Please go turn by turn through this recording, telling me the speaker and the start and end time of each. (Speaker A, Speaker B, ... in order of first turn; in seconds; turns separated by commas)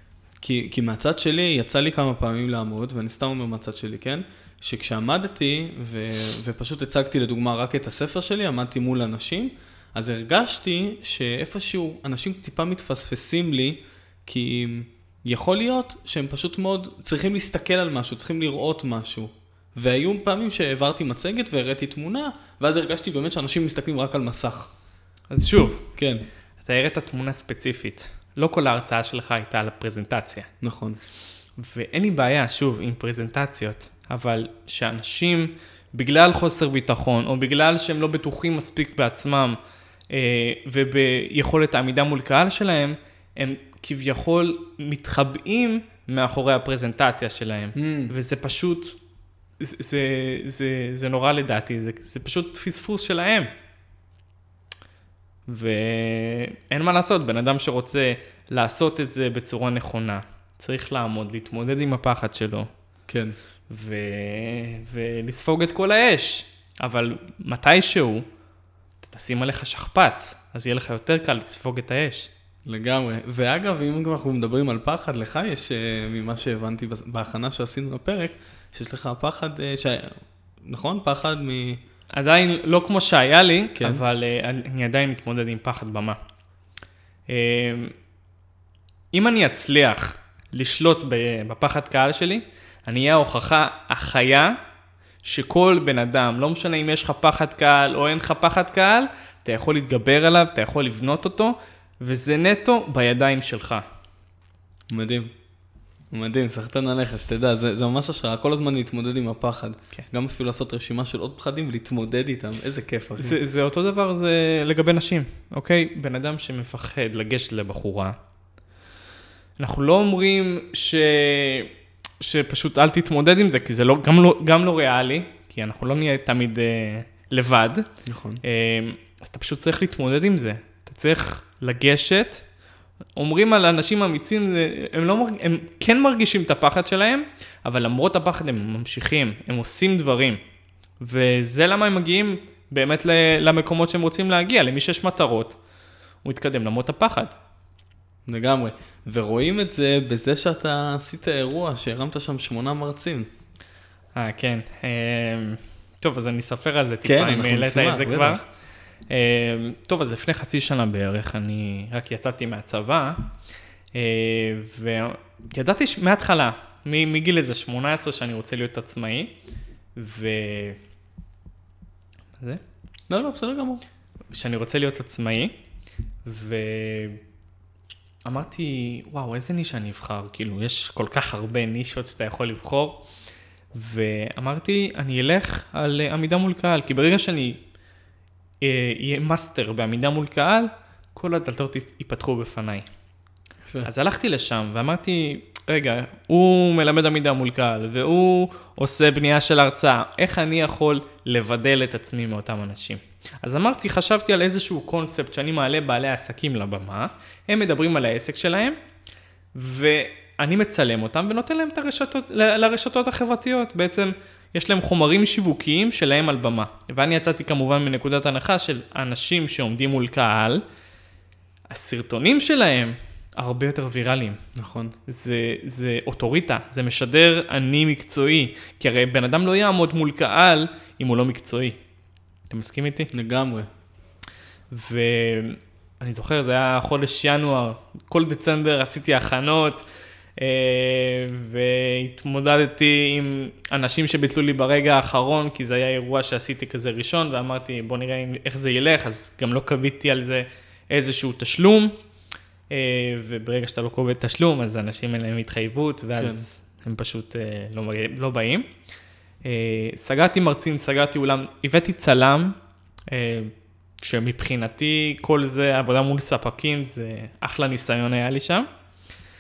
Speaker A: 0.4-24.7, Speaker B: 25.3-25.9, Speaker A: 25.9-26.3, Speaker B: 26.6-30.5, Speaker A: 30.6-31.0, Speaker B: 31.6-39.6, Speaker B: 40.1-49.0, Speaker A: 47.8-48.1, Speaker B: 49.6-53.5, Speaker B: 55.5-62.7, Speaker A: 63.1-63.4, Speaker B: 63.7-68.3, Speaker B: 69.0-72.3, Speaker A: 72.7-81.8, Speaker B: 82.1-86.2, Speaker A: 83.8-84.0, Speaker B: 87.3-87.9, Speaker B: 89.1-94.5, Speaker B: 95.2-103.8, Speaker A: 104.9-105.3, Speaker A: 106.1-113.4, Speaker B: 113.2-118.2, Speaker B: 119.6-127.9, Speaker A: 128.1-128.4, Speaker B: 128.4-132.4, Speaker B: 133.2-140.4, Speaker B: 141.0-145.6, Speaker B: 146.2-147.4, Speaker A: 148.3-153.3, Speaker B: 154.2-158.4, Speaker A: 157.1-158.4, Speaker B: 159.1-163.3, Speaker B: 163.9-169.3, Speaker B: 169.9-170.8, Speaker A: 173.1-173.8, Speaker B: 174.3-175.6, Speaker B: 176.2-177.2, Speaker B: 178.3-183.1, Speaker B: 183.7-187.6, Speaker B: 188.6-192.9, Speaker B: 193.8-208.8, Speaker B: 209.5-220.6, Speaker B: 221.7-224.4, Speaker A: 224.6-224.9, Speaker B: 225.1-231.8, Speaker B: 232.5-233.1, Speaker A: 233.1-233.7, Speaker B: 234.7-239.8, Speaker B: 240.4-251.9, Speaker B: 252.7-258.7, Speaker A: 256.2-256.4, Speaker B: 259.4-262.6, Speaker B: 263.1-268.7